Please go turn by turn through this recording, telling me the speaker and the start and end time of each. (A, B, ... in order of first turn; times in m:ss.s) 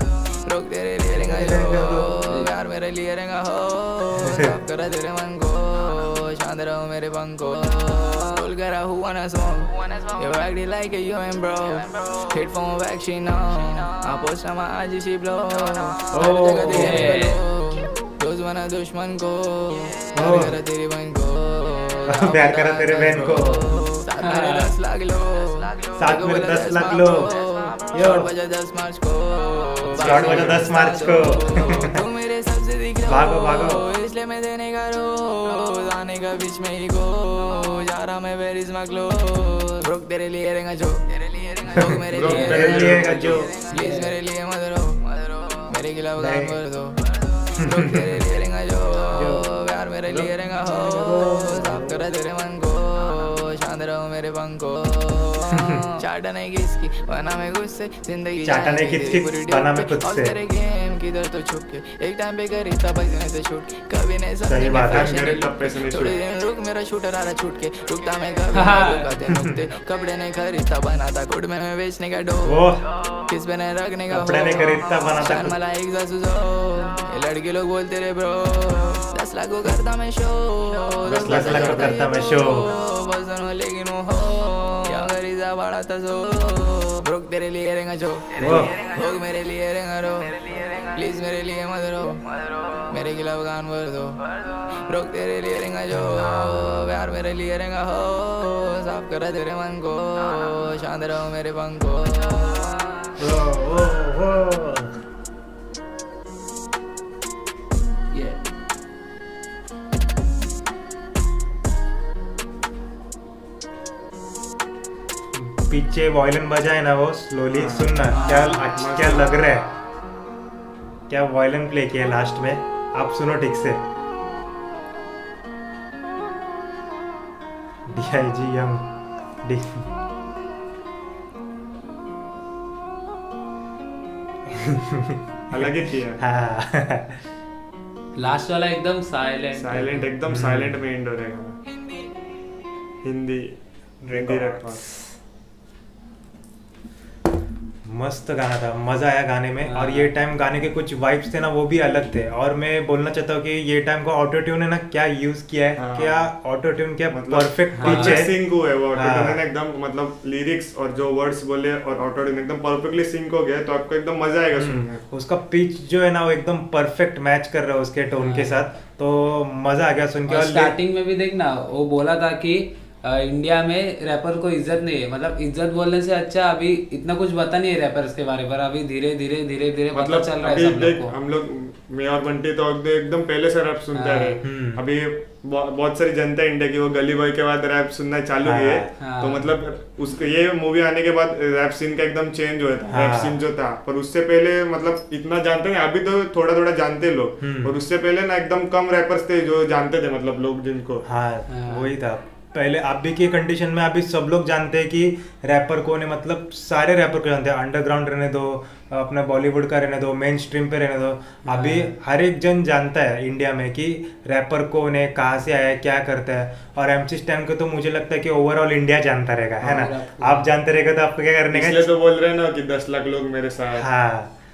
0:00.4-1:42.8 A
0:01.1-0:02.1 B
0:04.2-0:04.5 B
0:16.1-0:17.1 B
0:16.7-0:17.4 C
0:20.2-0:20.5 B
0:22.1-0:23.8 B
0:24.2-0:24.7 C
0:26.0-0:27.3 B
0:27.9-0:28.3 B
0:29.9-0:32.0 B
0:30.0-0:30.5 C
0:30.1-0:30.6 D
0:33.1-0:33.8 B
0:41.7-0:43.5 B
0:42.0-0:43.4 D
0:42.2-0:43.0 C
0:43.7-0:44.2 C
0:46.2-0:46.5 B
0:47.6-0:48.2 B
0:49.1-0:49.4 B
0:50.1-0:52.0 B
0:55.5-0:55.9 B
0:58.4-1:00.4 B
1:04.4-1:05.1 B
1:04.7-1:06.2 D
1:08.5-1:09.1 C
1:09.3-1:09.5 B
1:12.4-1:12.8 B
1:14.1-1:15.6 B
1:21.0-1:21.9 D
1:21.2-1:22.7 B
1:28.4-1:28.7 B
1:43.2-1:44.9 B
1:48.1-1:48.4 C
1:55.3-1:59.7 B
1:57.5-1:59.3 D
1:58.3-1:58.6 C
2:01.1-2:03.8 B
2:07.9-2:08.9 B
2:09.4-2:09.9 B
2:14.5-2:15.6 B
2:15.5-2:16.2 D
2:16.2-2:17.2 B
2:18.2-2:20.1 C
2:19.5-2:21.6 D
2:20.3-2:20.8 B
2:23.0-2:23.6 D
2:24.0-2:24.7 B
2:24.1-2:24.8 D
2:27.9-2:38.3 B
2:29.6-2:30.1 C
2:35.8-2:36.3 D
2:37.1-2:45.0 D
2:37.7-2:38.2 C
2:38.9-2:39.4 B
2:44.5-2:50.8 B
2:48.1-2:48.6 C
2:50.3-3:01.1 C
2:59.9-3:21.0 D
3:03.9-3:04.4 C
3:04.4-3:04.8 B
3:08.4-3:08.9 B
3:09.0-3:09.5 C
3:12.9-3:13.4 B
3:17.4-3:17.7 B
3:21.0-3:41.9 B
3:21.5-3:21.9 C
3:31.5-3:31.9 C
3:39.6-3:40.5 C
3:41.5-3:43.8 D
3:43.8-3:44.3 B